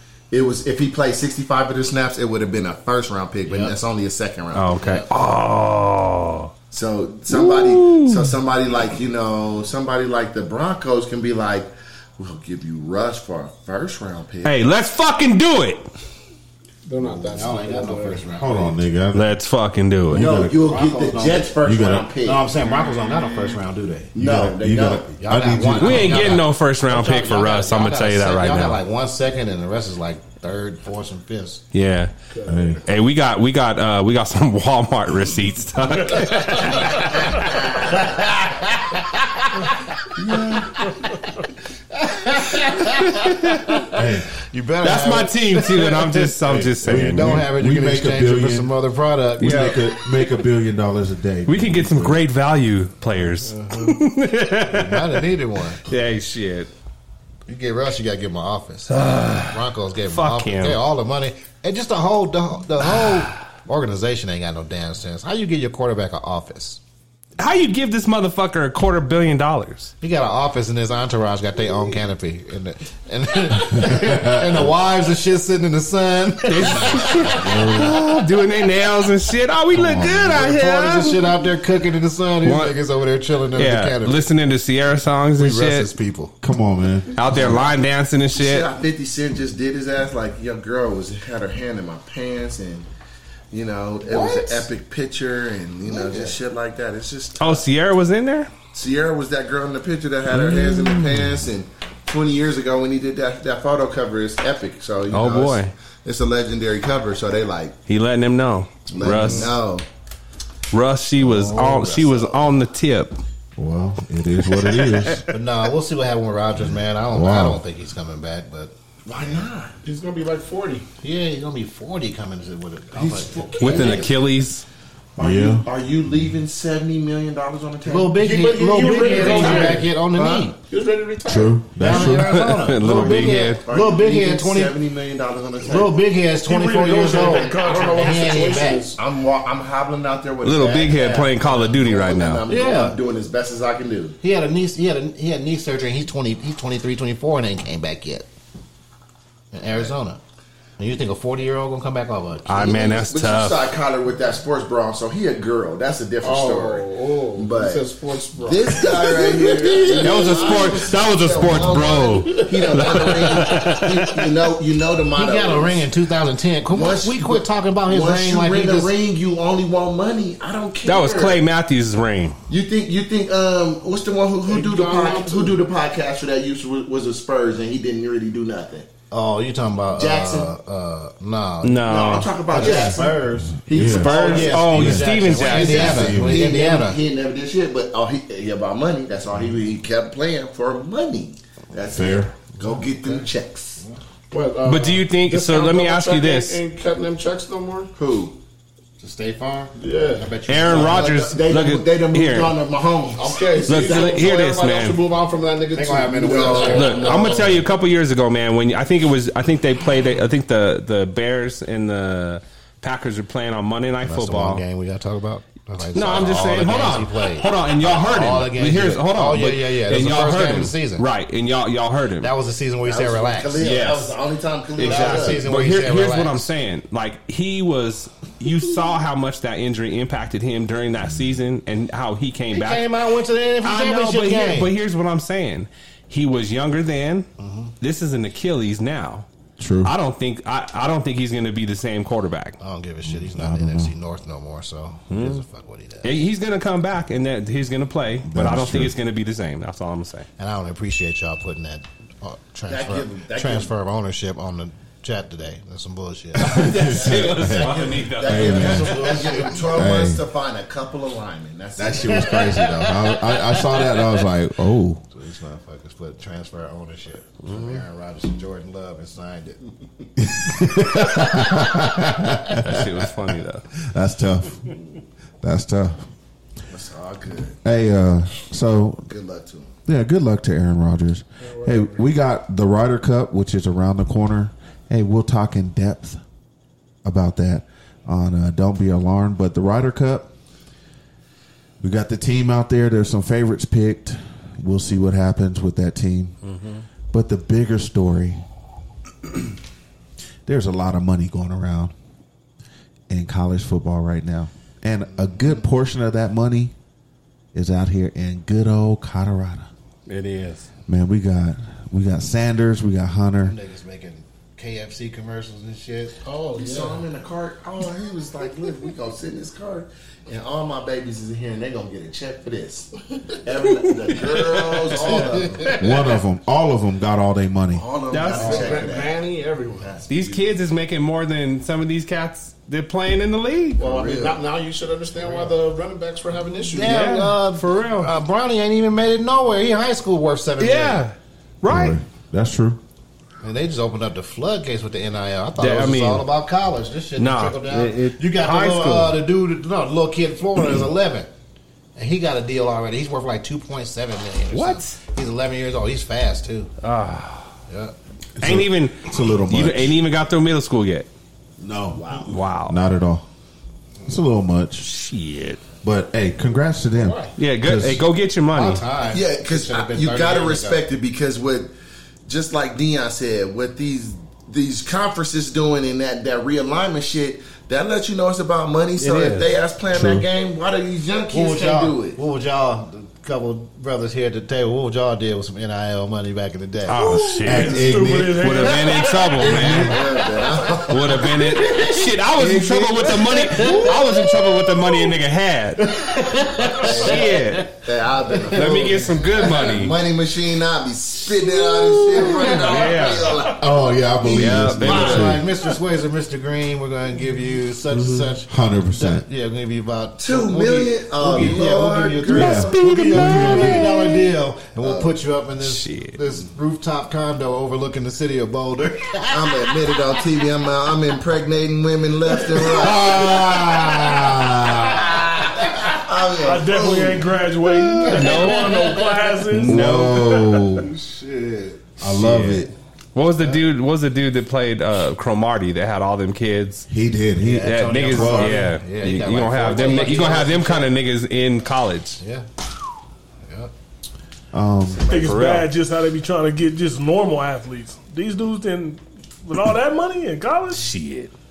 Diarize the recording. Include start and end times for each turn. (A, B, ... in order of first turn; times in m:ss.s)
0:00.3-0:04.8 A
0:03.5-0:03.7 B
0:04.5-0:06.5 C
0:04.8-0:05.1 B
0:06.7-0:14.6 A
0:07.3-0:08.4 C
0:14.4-0:15.9 C
0:16.8-0:18.2 D
0:17.2-0:18.8 B
0:18.4-0:19.3 E
0:19.1-0:20.2 C
0:20.1-0:20.8 E
0:20.1-0:22.4 A
0:20.1-0:21.5 B
0:21.6-0:22.1 E
0:22.2-0:24.2 B
0:24.1-0:25.1 A
0:24.2-0:26.4 E
0:25.2-0:31.6 B
0:25.8-0:28.8 C
0:31.7-0:32.1 C
0:32.3-0:32.6 D
0:32.4-0:32.8 E
0:32.8-0:37.6 C
0:37.4-0:39.4 B
0:40.2-0:40.6 E
0:41.9-0:49.8 B
0:43.0-0:43.8 C
0:43.8-0:44.3 E
0:44.8-0:47.4 C
0:46.8-0:48.7 E
0:49.4-0:52.2 E
0:49.4-0:49.9 C
0:51.4-0:55.2 C
0:54.6-0:55.8 B
0:55.8-0:56.7 C
0:57.5-1:06.8 B
0:58.9-1:00.8 C
1:07.4-1:09.9 C
1:10.0-1:17.4 B
1:13.8-1:14.6 E
1:16.4-1:21.2 C
1:17.2-1:18.0 E
1:19.7-1:20.4 E
1:20.2-1:24.2 B
1:22.4-1:22.7 C
1:23.5-1:25.9 C
1:25.4-1:26.3 B
1:26.4-1:27.6 E
1:27.1-1:28.7 C
1:28.3-1:32.9 A
1:33.5-1:37.6 A
1:34.1-1:34.6 B
1:35.9-1:36.3 B
1:37.4-1:38.5 C
1:38.7-1:47.8 A
1:45.1-1:45.7 C
1:47.9-1:49.6 C
1:48.9-1:49.8 A
1:50.7-1:53.2 C
1:51.5-1:51.7 B
1:51.8-1:52.4 A
1:53.6-1:55.2 E
1:54.6-1:55.2 C
1:55.3-1:58.7 B
1:57.1-1:57.6 E
1:59.0-1:59.8 A
1:59.8-2:00.8 D
2:01.0-2:04.1 B
2:02.9-2:04.3 A
2:03.6-2:04.6 C
2:05.2-2:08.2 A
2:05.2-2:05.6 E
2:07.8-2:10.5 B
2:08.2-2:09.8 D
2:08.8-2:09.9 F
2:09.1-2:10.6 A
2:10.7-2:11.6 D
2:11.2-2:12.7 E
2:11.8-2:14.8 B
2:12.3-2:13.6 C
2:12.8-2:16.0 A
2:15.6-2:18.9 B
2:16.4-2:18.8 F
2:17.0-2:19.0 D
2:18.9-2:24.2 A
2:20.4-2:22.4 C
2:22.5-2:23.0 B
2:24.2-2:28.3 B
2:29.5-2:30.2 B
2:30.8-2:32.7 B
2:32.5-2:33.7 C
2:32.5-2:45.9 A
2:36.2-2:40.6 D
2:40.0-2:44.4 C
2:45.1-2:48.9 B
2:46.7-2:51.4 A
2:50.8-2:52.4 C
2:52.5-2:58.9 A
2:54.4-2:55.6 D
2:59.1-3:01.9 B
2:59.9-3:00.5 A
3:01.6-3:02.3 C
3:01.8-3:04.8 A
3:02.5-3:07.0 B
3:02.6-3:06.5 E
3:03.9-3:06.1 C
3:05.3-3:13.8 A
3:11.9-3:12.3 E
3:12.6-3:14.0 B
3:14.3-3:17.9 D
3:14.6-3:16.6 C
3:18.0-3:18.4 A
3:19.0-3:21.1 B
3:19.8-3:20.4 D
3:20.5-3:22.6 C
3:20.6-3:24.4 A
3:23.2-3:27.5 D
3:23.7-3:25.0 C
3:25.7-3:27.5 B
3:26.2-3:27.4 A
3:26.6-3:34.6 C
3:34.0-3:41.0 B
3:35.9-3:42.3 C
3:42.2-3:43.6 B
3:42.8-3:45.4 A
3:43.6-3:44.2 C
3:44.8-3:52.9 C
3:44.8-3:46.5 B
3:52.5-3:54.7 B
3:53.6-3:57.3 C
3:57.4-3:57.7 B
3:57.8-3:59.3 C
3:59.6-3:59.9 E
3:59.8-4:02.6 C
4:02.6-4:06.1 B
4:03.0-4:03.9 E
4:05.1-4:05.4 C
4:06.0-4:10.3 C
4:08.3-4:08.9 E
4:10.4-4:16.6 B
4:12.7-4:13.7 A
4:16.4-4:20.2 E
4:16.4-4:19.3 C
4:16.7-4:22.6 A
4:18.6-4:19.6 B
4:21.8-4:25.0 E
4:22.3-4:23.8 B
4:25.1-4:29.6 B
4:27.4-4:27.8 C
4:30.2-4:34.7 E
4:32.6-4:33.6 C
4:35.4-4:36.1 E
4:36.7-4:37.6 A
4:37.6-4:39.1 E
4:39.0-4:39.7 A
4:39.8-4:46.2 E
4:41.4-4:42.0 D
4:47.0-4:50.3 E
4:51.8-4:56.4 E
4:56.4-4:56.7 C
4:57.1-4:58.4 E
5:00.4-5:01.9 E
5:03.1-5:06.7 E
5:07.5-5:09.7 E
5:10.1-5:10.7 C
5:10.9-5:13.6 E
5:13.4-5:16.2 B
5:16.2-5:17.0 D
5:16.5-5:25.8 A
5:24.2-5:25.2 C
5:25.0-5:25.7 B
5:25.8-5:27.8 E
5:27.7-5:30.6 A
5:28.1-5:28.8 C
5:28.2-5:29.9 D
5:28.4-5:28.8 B
5:30.1-5:33.8 C
5:33.8-5:37.1 D
5:33.8-5:34.4 A
5:36.7-5:41.0 B
5:36.8-5:38.1 C
5:40.6-5:42.0 C
5:41.6-5:42.8 E
5:43.4-5:51.3 B
5:45.6-5:46.3 C
5:47.2-5:49.2 C
5:52.0-5:56.7 B
5:54.5-5:55.0 C
5:56.8-5:57.5 C
5:57.7-5:57.9 B
5:58.4-6:00.0 E
5:58.4-6:01.1 C
6:01.6-6:03.2 E
6:01.9-6:02.4 A
6:02.3-6:02.8 C
6:04.0-6:04.9 E
6:04.8-6:05.6 C
6:05.8-6:08.1 E
6:06.9-6:07.3 D
6:07.4-6:08.8 C
6:08.5-6:10.8 B
6:09.0-6:11.7 A
6:12.2-6:22.2 A
6:19.0-6:19.5 C
6:19.9-6:20.2 E
6:21.3-6:27.0 B
6:26.9-6:30.0 C
6:27.0-6:29.6 F
6:27.4-6:28.8 E
6:29.4-6:30.0 E
6:29.5-6:31.8 A
6:30.9-6:37.7 C
6:32.4-6:33.8 E
6:33.4-6:34.6 B
6:35.9-6:37.6 B
6:36.8-6:43.7 A
6:38.4-6:38.9 B
6:38.5-6:40.0 C
6:42.2-6:42.6 B
6:42.2-6:43.4 C
6:43.6-6:45.5 E
6:44.2-6:45.2 A
6:44.3-6:45.4 C
6:44.8-6:59.4 B
6:47.9-6:48.3 C
6:48.5-6:49.2 E
6:50.2-6:52.8 A
6:52.3-6:54.0 E
6:52.4-6:54.2 C
6:54.8-6:55.1 A
6:55.6-6:56.2 C
6:59.3-7:03.4 A
7:02.7-7:05.3 E
7:02.9-7:03.8 C
7:05.8-7:07.4 A
7:06.4-7:09.9 F
7:07.8-7:08.2 E
7:08.0-7:09.0 C
7:08.0-7:09.1 B
7:09.5-7:10.9 E
7:09.5-7:10.5 C
7:10.8-7:11.9 A
7:12.0-7:12.7 E
7:12.2-7:16.9 C
7:16.9-7:18.7 E
7:17.4-7:20.9 B
7:17.6-7:22.2 C
7:22.2-7:22.5 B
7:23.5-7:23.7 B
7:24.5-7:25.1 E
7:25.0-7:25.7 C
7:25.0-7:30.9 F
7:30.7-7:31.3 C